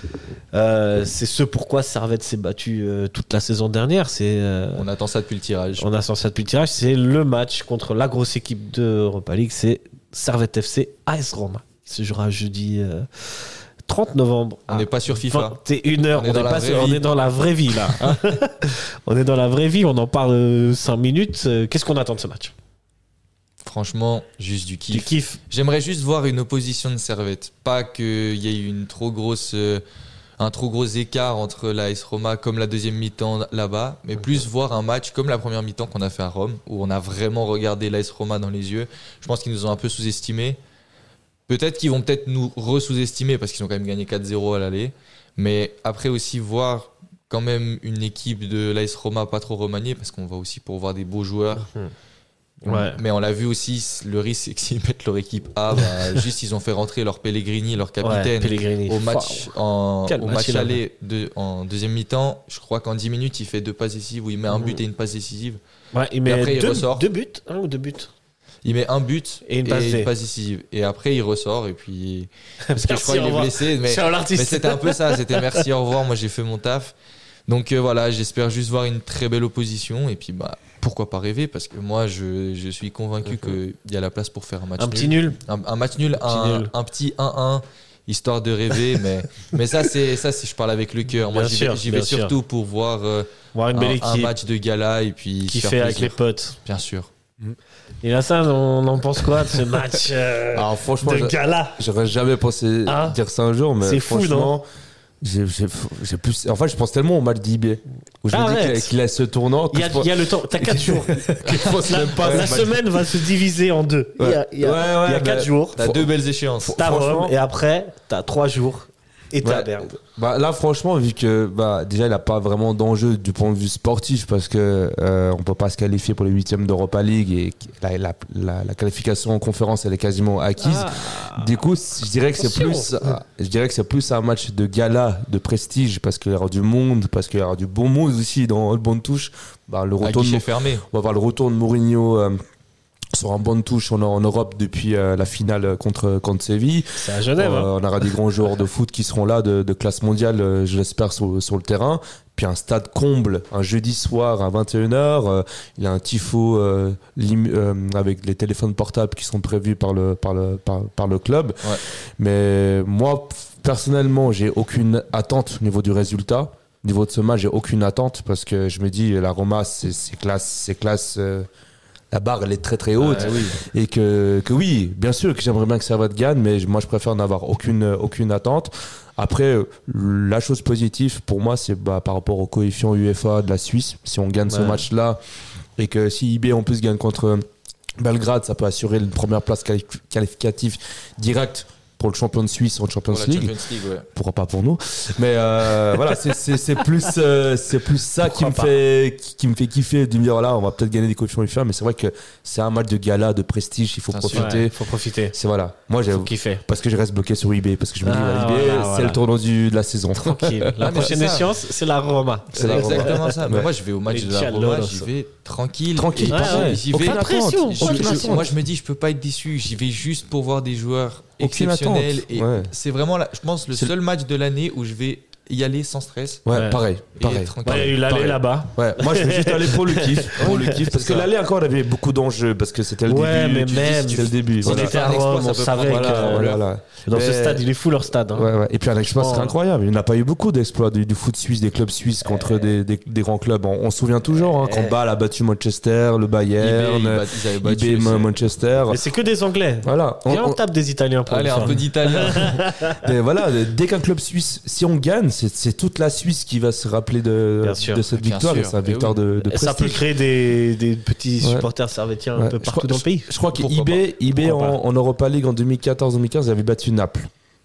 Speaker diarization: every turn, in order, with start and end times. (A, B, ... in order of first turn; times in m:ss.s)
0:00.5-0:04.8 A
0:04.7-0:05.9 B
0:05.8-0:22.5 A
0:14.7-0:15.6 B
0:16.1-0:17.1 B
0:23.6-0:29.8 B
0:24.9-0:25.4 A
0:30.4-0:40.6 B
0:41.5-0:51.7 B
0:51.6-0:51.9 A
0:52.6-0:53.0 A
0:52.6-1:05.6 B
0:58.0-1:00.8 A
1:04.5-1:04.8 A
1:05.9-1:08.1 A
1:06.2-1:07.1 B
1:08.6-1:16.9 B
1:09.4-1:10.1 A
1:12.7-1:15.6 A
1:17.5-1:37.1 B
1:24.8-1:25.4 A
1:26.2-1:26.7 A
1:31.2-1:32.3 A
1:33.5-1:34.4 A
1:35.5-1:36.6 A
1:38.0-1:41.8 A
1:40.5-1:44.6 C
1:42.8-1:43.2 A
1:43.8-1:44.6 A
1:45.2-1:53.2 C
1:48.3-1:48.9 A
1:49.7-1:55.8 A
1:52.2-1:52.6 B
1:54.2-1:56.1 C
1:55.7-1:56.8 B
1:56.6-1:57.3 C
1:56.8-1:59.9 A
1:59.4-2:22.4 C
2:10.6-2:11.5 A
2:12.4-2:12.9 A
2:20.0-2:20.8 B
2:23.1-2:51.4 C
2:27.0-2:27.7 A
2:52.1-3:05.2 C
2:53.0-2:53.5 A
2:53.0-2:53.6 B
3:04.5-3:04.8 A
3:05.8-3:07.4 C
3:08.0-3:13.6 C
3:13.1-3:14.1 B
3:14.1-3:24.8 C
3:18.2-3:18.7 A
3:24.1-3:24.6 B
3:24.3-3:25.3 A
3:25.3-3:31.1 C
3:26.1-3:26.6 A
3:28.0-3:29.2 A
3:30.2-3:33.3 A
3:30.8-3:31.5 B
3:32.5-3:33.7 C
3:32.5-3:46.4 B
3:34.1-3:35.1 A
3:35.9-3:38.5 C
3:36.3-3:38.4 A
3:41.4-3:42.7 C
3:46.4-3:55.2 C
3:46.5-3:46.8 A
3:47.2-3:48.0 B
3:47.6-3:50.9 A
3:50.4-3:51.2 B
3:53.1-3:59.6 A
3:53.7-3:56.6 B
3:55.8-3:57.7 C
3:58.3-4:09.0 C
4:02.2-4:02.7 A
4:04.3-4:05.0 A
4:06.6-4:08.3 B
4:08.9-4:12.9 A
4:09.8-4:10.6 C
4:11.3-4:12.7 B
4:13.0-4:20.0 C
4:17.6-4:18.0 A
4:18.1-4:19.2 B
4:19.4-4:23.3 A
4:21.4-4:21.7 C
4:22.3-4:27.3 C
4:23.5-4:24.0 B
4:24.4-4:24.8 A